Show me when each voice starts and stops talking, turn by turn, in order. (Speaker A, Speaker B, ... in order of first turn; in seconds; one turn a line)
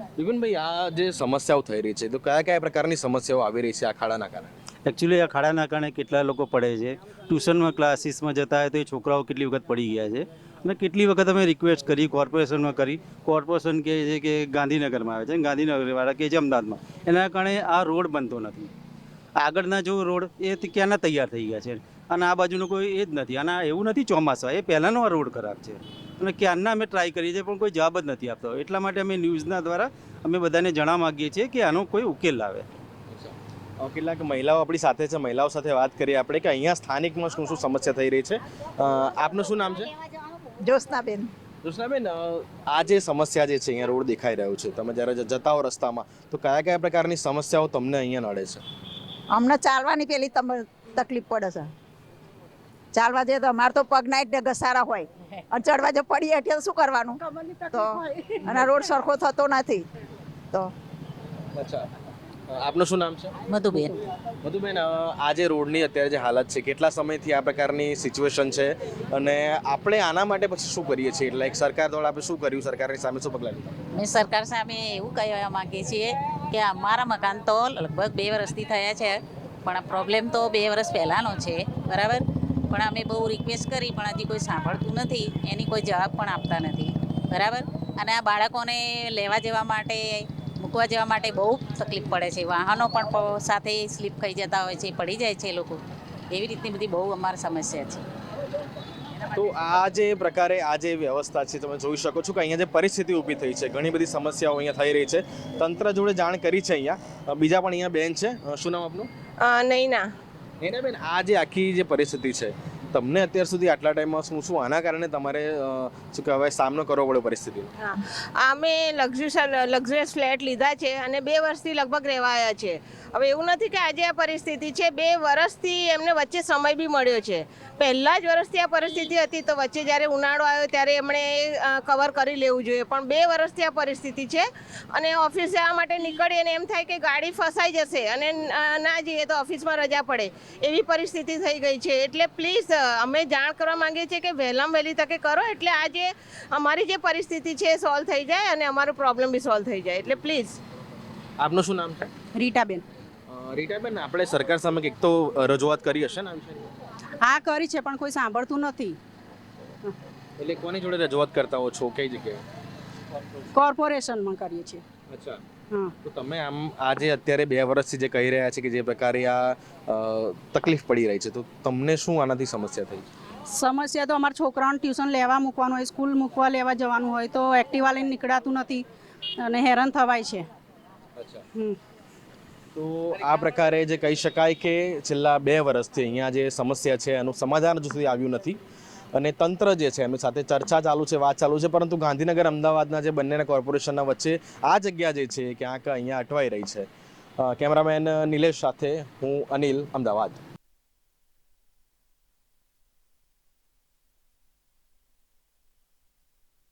Speaker A: 0.1-4.5
Speaker B: 4.8-18.7
Speaker B: 19.4-32.6
Speaker A: 33.1-39.9
Speaker C: 40.6-41.3
Speaker A: 41.6-48.6
Speaker C: 49.3-51.7
Speaker C: 52.9-59.9
Speaker A: 61.5-61.9
Speaker A: 62.5-63.3
Speaker D: 63.5-64.0
Speaker A: 64.4-73.7
Speaker D: 74.0-95.8
Speaker D: 96.3-98.0
Speaker A: 99.3-109.1
Speaker E: 109.4-110.1
Speaker A: 110.6-117.7
Speaker E: 117.8-150.6
Speaker A: 151.4-152.1
Speaker F: 152.3-152.8
Speaker A: 153.3-156.6
Speaker F: 157.2-159.0
Speaker A: 160.4-162.4
Speaker F: 163.5-164.8
Speaker A: 165.1-165.4
Speaker A: 166.0-173.1
Speaker F: 173.5-178.8
Speaker F: 179.4-180.4
Speaker A: 181.2-181.4
Speaker A: 182.7-188.6
Speaker A: 189.1-196.9
Speaker A: 197.4-200.4